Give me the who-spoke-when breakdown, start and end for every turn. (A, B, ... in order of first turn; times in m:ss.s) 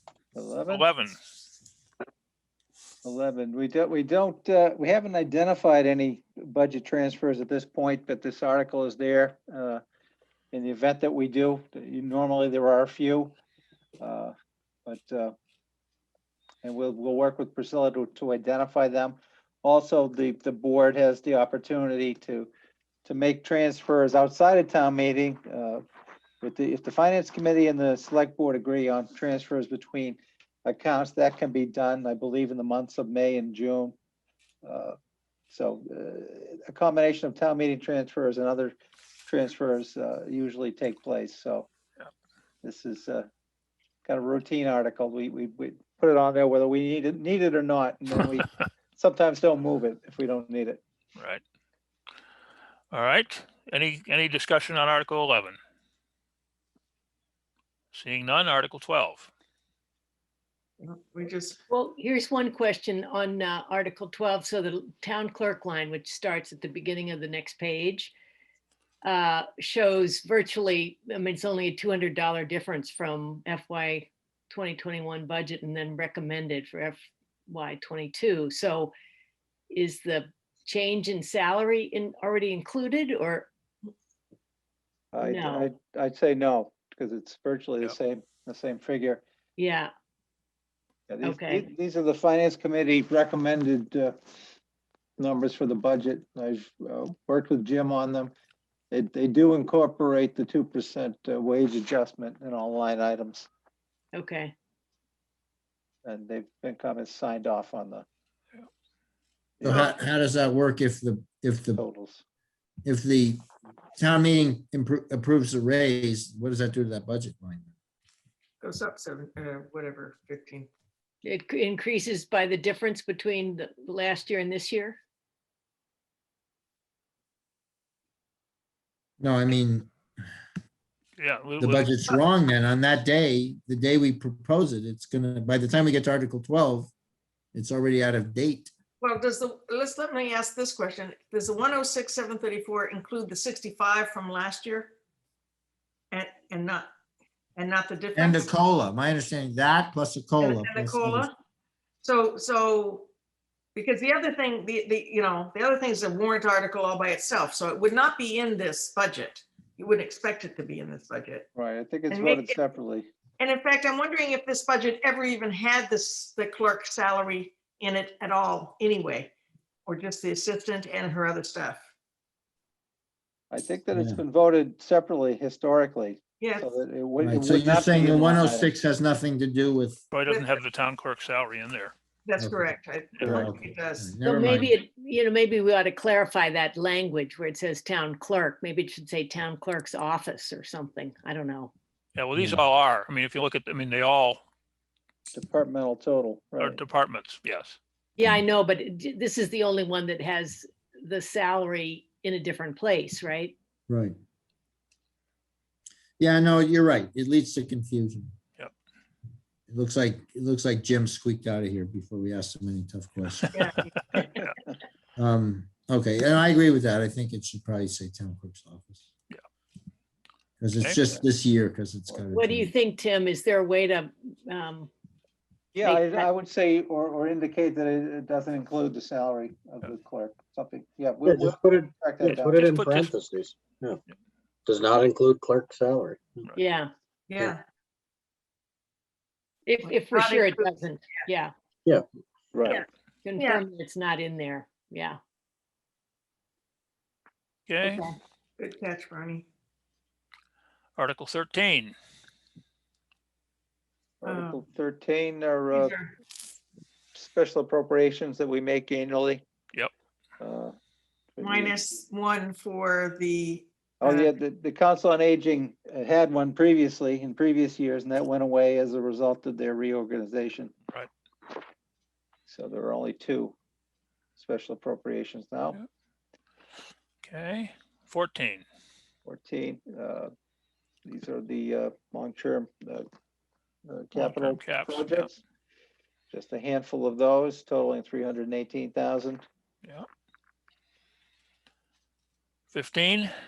0:00.3-0:00.9 A
0:00.7-0:01.2 B
0:03.0-0:09.8 A
0:10.5-0:13.4 A
0:14.0-0:14.3 A
0:14.8-0:15.3 A
0:16.6-0:22.5 A
0:23.0-0:25.8 A
0:26.4-0:33.9 A
0:34.6-0:35.0 A
0:35.5-0:38.7 A
0:39.2-0:41.7 A
0:42.6-0:43.3 A
0:44.0-0:50.8 A
0:51.2-0:51.4 B
0:52.9-0:55.6 B
0:57.9-0:59.3 B
1:00.8-1:01.6 C
1:01.7-1:08.1 D
1:09.0-1:18.9 D
1:19.7-1:23.5 D
1:25.1-1:29.2 A
1:25.2-1:25.7 D
1:29.6-1:29.9 D
1:31.1-1:34.2 A
1:31.2-1:31.7 D
1:35.2-1:38.3 A
1:38.9-1:43.5 A
1:44.1-1:44.5 D
1:46.0-1:48.0 A
1:49.6-1:50.0 A
1:49.6-1:51.8 E
1:51.7-1:52.2 A
1:52.8-1:53.4 E
1:54.0-1:57.7 E
1:58.6-2:00.7 C
2:01.2-2:05.0 D
2:09.2-2:09.9 E
2:11.2-2:11.9 B
2:11.6-2:16.9 E
2:17.5-2:18.7 E
2:19.0-2:24.9 C
2:26.1-2:26.9 C
2:27.6-2:28.5 C
2:28.1-2:31.3 E
2:30.4-2:31.3 C
2:32.0-2:33.1 C
2:33.7-2:41.4 C
2:41.5-2:43.1 A
2:42.1-2:42.6 C
2:43.4-2:49.3 C
2:49.8-2:51.8 C
2:53.5-2:58.7 A
2:53.9-2:54.2 E
2:56.4-2:56.7 C
2:57.2-3:00.0 E
3:00.1-3:01.9 B
3:00.2-3:00.6 C
3:02.2-3:04.1 C
3:02.4-3:04.8 E
3:03.2-3:03.5 A
3:04.2-3:11.7 D
3:12.2-3:14.4 B
3:12.4-3:12.6 E
3:15.3-3:16.8 A
3:16.6-3:17.8 B
3:18.2-3:23.5 D
3:23.9-3:24.1 E
3:26.2-3:28.3 E
3:29.7-3:33.6 E
3:33.5-3:34.4 C
3:35.2-3:39.1 E
3:40.6-3:42.7 E
3:42.3-3:44.9 D
3:45.7-3:52.5 A
3:45.8-3:46.3 D
3:51.2-3:54.0 F
3:52.6-3:53.1 B
3:54.6-3:56.5 F
3:56.5-3:56.9 D
3:57.3-3:57.6 C
3:59.6-4:01.5 D
3:59.8-4:00.7 C
4:02.5-4:02.8 A
4:03.2-4:05.2 D
4:07.7-4:08.0 B
4:07.8-4:08.1 D
4:08.6-4:09.4 C
4:11.0-4:11.9 B
4:14.2-4:16.0 A
4:14.2-4:14.6 C
4:15.7-4:16.1 C
4:17.1-4:19.4 A
4:20.4-4:20.7 A
4:21.4-4:21.8 A
4:21.4-4:24.3 C
4:24.0-4:30.7 A
4:32.5-4:33.6 A
4:34.4-4:35.8 A
4:37.2-4:38.6 B
4:39.2-4:40.3 A
4:41.0-4:43.0 A
4:43.8-4:45.4 A
4:44.1-4:45.3 B
4:46.3-4:49.4 A
4:52.7-4:53.3 B